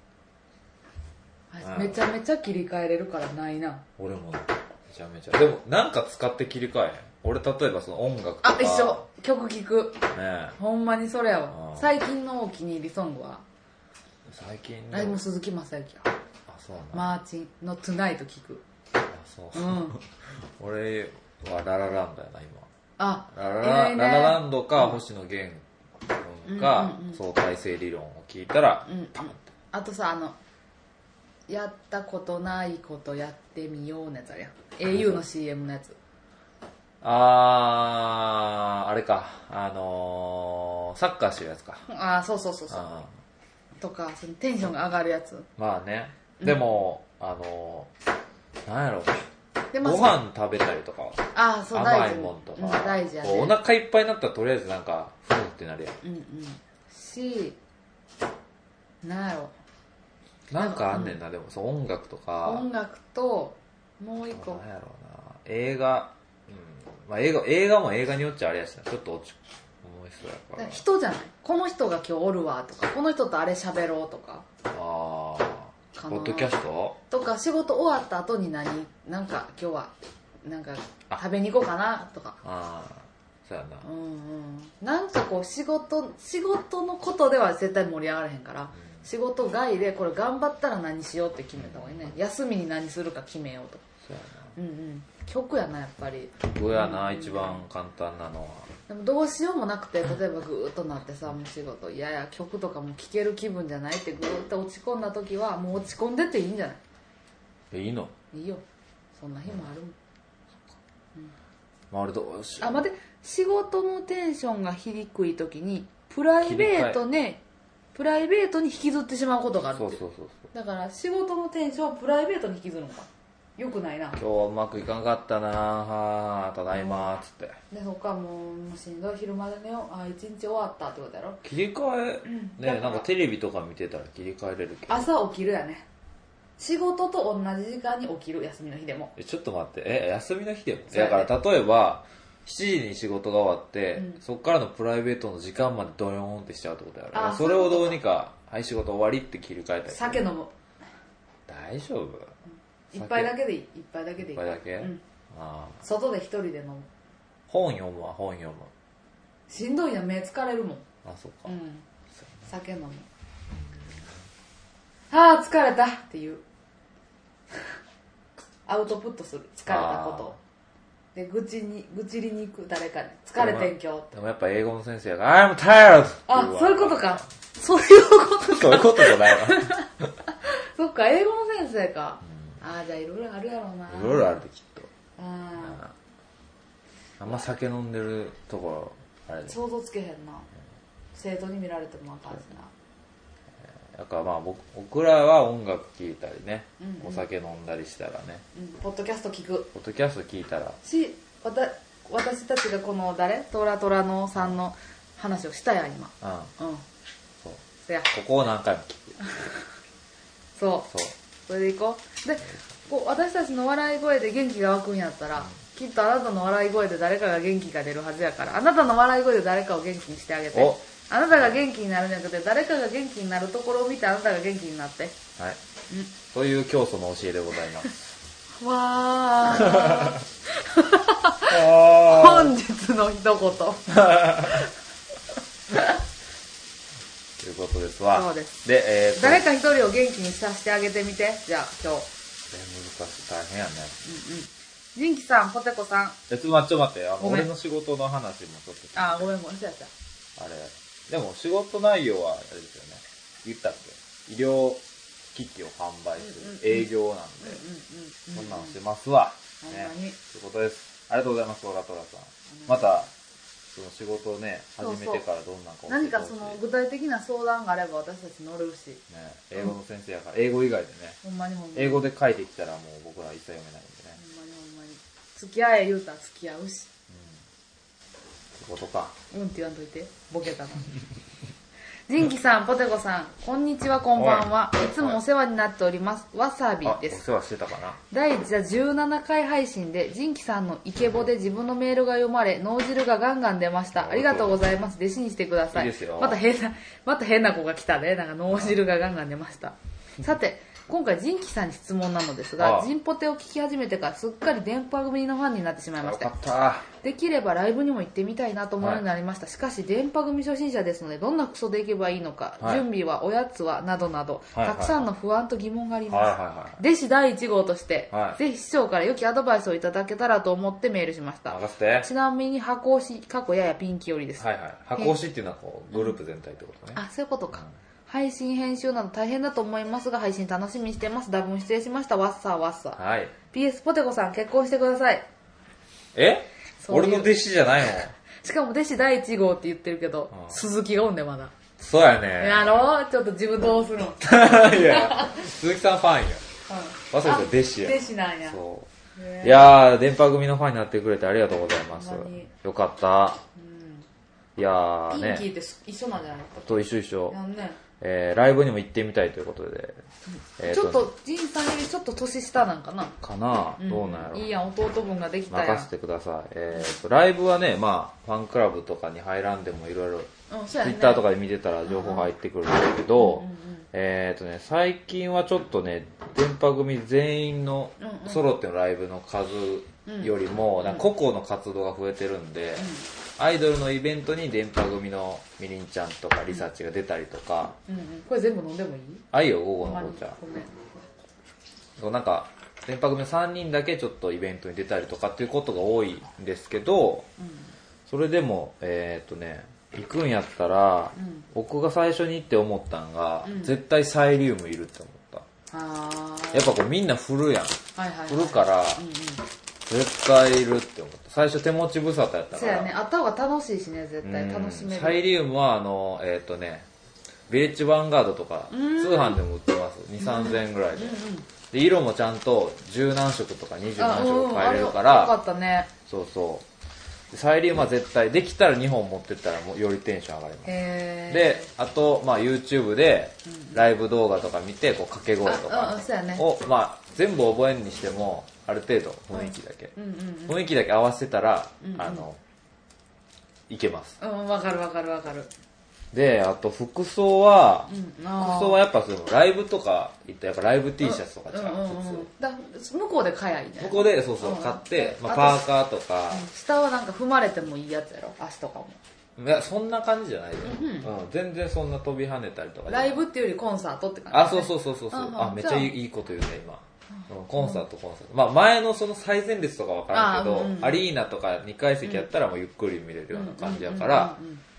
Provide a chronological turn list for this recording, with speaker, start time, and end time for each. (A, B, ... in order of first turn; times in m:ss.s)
0:01.5-0:03.8 A
0:01.6-0:02.0 B
0:04.0-0:09.0 B
0:08.4-0:10.0 A
0:10.1-0:10.6 B
0:10.6-0:13.4 A
0:11.5-0:11.8 B
0:14.3-0:15.2 B
0:14.9-0:16.1 A
0:16.5-0:17.1 B
0:16.9-0:18.6 A
0:19.1-0:20.0 B
0:19.6-0:20.0 A
0:20.6-0:22.7 B
0:23.0-0:25.0 A
0:23.3-0:29.5 B
0:26.5-0:27.2 A
0:28.9-0:30.4 A
0:31.5-0:36.0 A
0:34.9-0:35.2 B
0:37.0-0:41.9 B
0:41.9-0:43.0 A
0:42.7-0:43.1 B
0:43.8-0:45.5 A
0:45.6-0:47.9 B
0:46.4-0:46.7 A
0:48.7-0:49.3 B
0:49.7-0:50.2 A
0:49.8-0:56.0 B
0:51.3-0:53.6 A
0:56.0-0:57.6 A
0:59.0-0:59.5 A
1:00.5-1:02.7 B
1:00.6-1:01.2 A
1:02.4-1:04.6 A
1:04.3-1:10.8 B
1:10.6-1:14.5 A
1:14.7-1:17.0 B
1:16.0-1:16.5 A
1:17.1-1:19.9 A
1:20.4-1:22.4 A
1:22.4-1:23.9 B
1:23.8-1:33.8 A
1:31.6-1:32.1 B
1:34.1-1:34.4 B
1:34.6-1:37.6 A
1:36.4-1:38.7 B
1:38.9-1:46.8 A
1:47.7-1:48.1 B
1:48.3-1:48.6 A
1:49.2-1:50.0 A
1:51.9-1:52.8 B
1:52.6-1:57.4 A
1:56.4-1:57.0 B
1:58.0-2:00.0 A
1:59.8-2:00.5 B
2:00.5-2:04.2 A
2:04.2-2:07.6 B
2:06.8-2:07.1 A
2:07.7-2:11.4 A
2:11.4-2:15.1 B
2:12.3-2:13.1 A
2:14.9-2:15.8 A
2:16.6-2:19.1 A
2:19.2-2:30.2 B
2:20.9-2:21.3 A
2:27.1-2:28.0 A
2:29.9-2:30.5 A
2:31.5-2:32.3 B
2:32.9-2:35.0 A
2:33.0-2:33.3 B
2:34.3-2:35.8 B
2:35.8-2:36.9 A
2:37.5-2:38.7 B
2:39.5-2:40.8 A
2:41.0-2:41.5 B
2:41.5-2:41.8 A
2:42.5-2:43.1 A
2:45.1-2:46.4 A
2:48.7-2:50.4 A
2:49.7-2:50.4 B
2:51.2-2:54.1 A
2:53.4-2:57.3 B
2:56.3-3:04.4 A
2:58.5-2:59.8 B
3:03.9-3:04.9 B
3:05.2-3:05.8 A
3:05.6-3:05.9 B
3:07.2-3:09.6 B
3:09.5-3:10.5 A
3:11.1-3:12.7 A
3:13.9-3:18.4 B
3:16.8-3:17.2 A
3:18.5-3:19.7 A
3:19.7-3:20.8 B
3:20.8-3:26.8 A
3:26.2-3:26.5 B
3:27.4-3:29.5 B
3:30.6-3:30.9 A
3:30.9-3:31.2 B
3:31.5-3:45.2 A
3:40.5-3:40.8 B
3:46.3-3:48.0 B
3:48.6-3:54.7 A
3:49.6-3:50.2 B
3:51.5-3:52.6 B
3:53.9-3:54.6 B
3:57.4-3:59.4 B
3:58.1-3:58.6 A
3:59.2-4:02.1 A
4:02.5-4:04.0 B
4:04.0-4:06.2 A
4:06.3-4:09.3 B
4:07.2-4:07.5 A
4:09.0-4:09.9 A
4:10.4-4:14.8 B
4:15.3-4:17.6 B
4:16.2-4:18.8 A
4:18.3-4:23.1 B
4:19.6-4:20.2 A
4:22.6-4:23.0 A
4:23.7-4:26.6 B
4:24.8-4:25.2 A
4:25.9-4:29.0 A
4:29.1-4:31.2 B
4:31.2-4:32.1 A
4:31.8-4:34.2 B
4:34.2-4:36.9 A
4:37.1-4:37.4 B
4:38.6-4:39.2 B
4:39.3-4:40.9 A
4:42.1-4:47.2 A
4:44.2-4:44.5 B
4:46.8-4:48.0 B
4:48.1-5:06.3 A
4:54.0-4:54.6 B
4:55.7-4:56.4 B
5:02.6-5:02.9 B
5:06.0-5:06.9 B
5:07.0-5:24.4 A
5:14.5-5:15.0 B
5:16.1-5:16.8 B
5:18.1-5:18.4 B
5:21.5-5:22.1 B
5:24.4-5:27.0 B
5:26.9-5:33.0 A
5:33.0-5:33.3 B
5:33.5-5:35.3 A
5:36.2-5:38.1 B
5:36.8-5:37.3 A
5:38.4-5:41.5 A
5:41.8-5:42.8 B
5:42.4-5:45.4 A
5:44.2-5:46.4 B
5:46.7-5:48.6 A
5:47.1-5:48.9 B
5:49.2-5:49.7 A
5:49.4-5:53.4 B
5:51.9-5:52.5 A
5:53.6-5:54.1 A
5:54.6-5:55.5 B
5:55.1-5:57.8 A
5:56.6-5:57.4 B
5:58.0-6:00.0 B
6:00.6-6:01.1 B
6:00.6-6:03.2 A
6:03.2-6:04.5 B
6:03.8-6:05.9 A
6:05.5-6:27.8 B
6:10.5-6:11.2 A
6:11.9-6:12.3 A
6:13.2-6:13.8 A
6:18.0-6:18.4 A
6:20.1-6:21.1 A
6:22.8-6:23.0 A
6:27.9-6:29.2 A
6:29.3-6:30.4 B
6:29.8-6:30.7 A
6:32.0-6:37.3 B
6:37.4-6:37.6 A
6:38.1-6:45.5 B
6:41.2-6:41.4 A
6:43.4-6:43.7 A
6:45.7-6:46.7 A
6:46.5-6:49.0 B
6:48.0-6:49.4 A
6:49.9-6:52.9 B
6:52.5-6:55.2 A
6:54.2-6:56.9 B
6:57.5-7:01.2 B
6:58.7-6:59.4 A
7:00.2-7:01.5 A
7:01.7-7:05.4 B
7:04.0-7:05.9 A
7:06.1-7:06.7 B
7:07.3-7:10.8 B
7:10.6-7:11.6 A
7:11.3-7:20.0 B
7:13.5-7:13.8 A
7:15.4-7:16.4 A
7:19.3-7:20.6 A
7:20.5-7:22.4 B
7:21.8-7:22.2 A
7:23.7-7:24.2 B
7:24.2-7:25.5 A
7:26.1-7:32.3 B
7:27.9-7:28.8 A
7:31.0-7:35.7 A
7:33.8-7:36.5 B
7:36.3-7:39.0 A
7:39.4-7:43.2 B
7:40.6-7:41.1 A
7:42.9-7:46.0 A
7:44.3-7:54.4 B
7:50.1-7:51.0 A
7:53.3-7:54.6 A